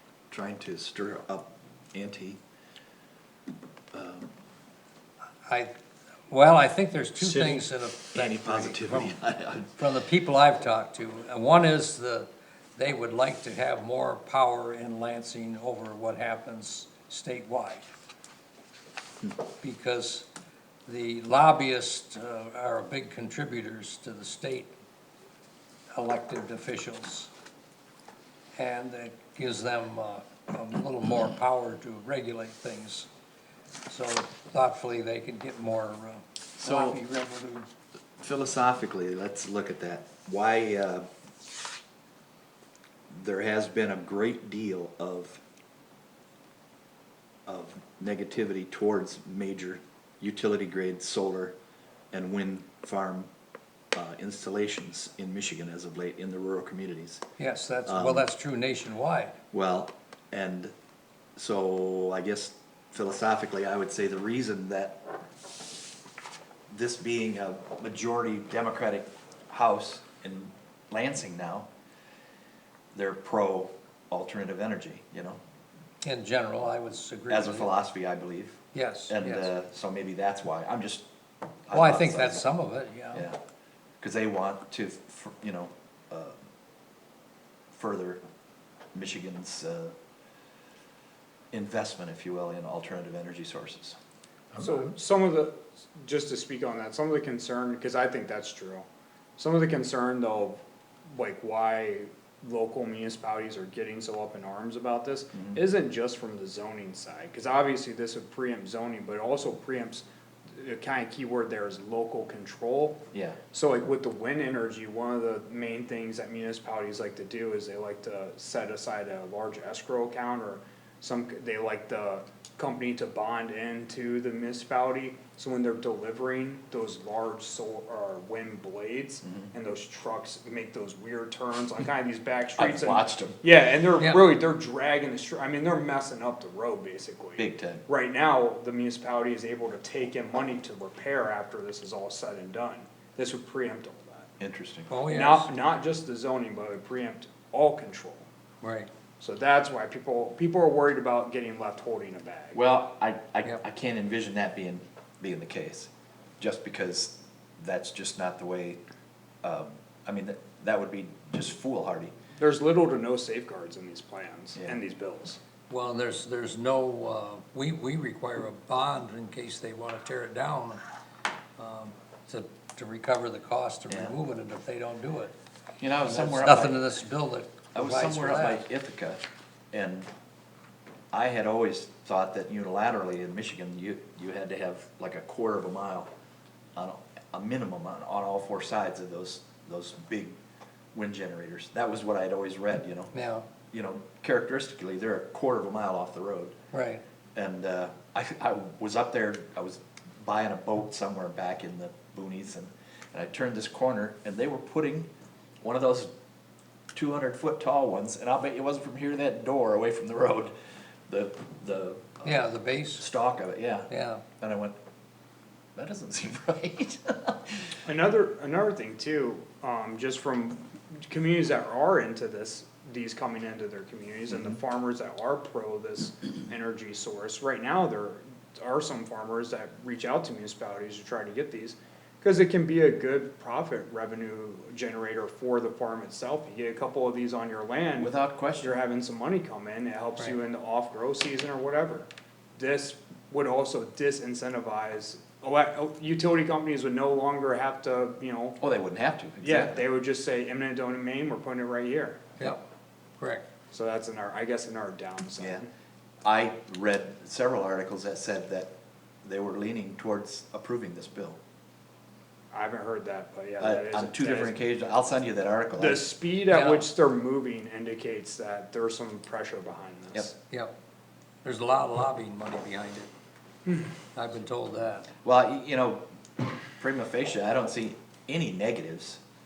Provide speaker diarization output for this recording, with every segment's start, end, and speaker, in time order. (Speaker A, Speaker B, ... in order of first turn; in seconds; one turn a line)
Speaker A: 0.3-2.4
Speaker A: 3.9-4.3
Speaker B: 5.5-5.7
Speaker B: 6.3-9.1
Speaker A: 7.2-9.8
Speaker B: 9.8-17.8
Speaker B: 19.6-20.3
Speaker B: 20.9-24.7
Speaker B: 25.9-27.3
Speaker B: 28.6-33.1
Speaker B: 33.9-37.7
Speaker A: 36.6-37.0
Speaker A: 38.2-41.0
Speaker A: 43.1-45.4
Speaker A: 47.5-51.5
Speaker A: 52.1-53.3
Speaker A: 53.9-57.2
Speaker B: 57.4-59.4
Speaker A: 57.9-58.3
Speaker A: 59.5-60.7
Speaker A: 61.4-65.0
Speaker A: 66.7-71.7
Speaker A: 73.0-75.4
Speaker B: 76.0-77.7
Speaker A: 77.3-81.1
Speaker B: 78.7-79.5
Speaker A: 81.7-82.4
Speaker B: 81.7-83.2
Speaker A: 83.1-83.4
Speaker A: 84.0-86.4
Speaker A: 87.7-88.2
Speaker A: 88.9-89.9
Speaker A: 91.5-94.0
Speaker C: 94.6-98.9
Speaker C: 99.4-144.3
Speaker A: 105.3-105.6
Speaker A: 113.1-113.4
Speaker A: 129.2-129.5
Speaker A: 132.6-133.4
Speaker B: 134.0-134.3
Speaker A: 137.4-137.8
Speaker A: 144.4-144.9
Speaker B: 144.9-145.5
Speaker C: 145.1-148.2
Speaker B: 148.6-148.9
Speaker C: 149.2-152.6
Speaker A: 152.5-158.8
Speaker A: 159.4-162.1
Speaker C: 162.4-165.4
Speaker A: 164.5-164.8
Speaker B: 165.7-170.8
Speaker B: 171.6-175.3
Speaker A: 173.9-174.2
Speaker A: 175.8-176.9
Speaker B: 176.1-178.6
Speaker A: 177.7-179.2
Speaker A: 179.7-180.1
Speaker A: 181.1-186.1
Speaker A: 186.8-190.4
Speaker A: 190.9-193.1
Speaker B: 193.1-193.4
Speaker A: 193.7-196.6
Speaker B: 196.7-197.0
Speaker A: 197.3-205.1
Speaker A: 205.6-206.1
Speaker A: 206.9-210.5
Speaker A: 211.1-214.8
Speaker B: 212.2-213.0
Speaker B: 213.9-214.2
Speaker A: 215.8-217.7
Speaker C: 217.8-248.6
Speaker A: 238.0-238.8
Speaker A: 248.6-249.8
Speaker C: 249.4-252.3
Speaker B: 253.2-253.4
Speaker C: 253.7-255.7
Speaker A: 255.4-255.6
Speaker A: 256.2-258.7
Speaker A: 259.2-261.4
Speaker C: 262.5-264.6
Speaker A: 263.6-266.0
Speaker C: 265.8-270.4
Speaker B: 266.5-266.9
Speaker B: 271.4-273.1
Speaker C: 273.7-273.9
Speaker B: 274.1-275.1
Speaker A: 275.2-276.0
Speaker A: 276.8-279.2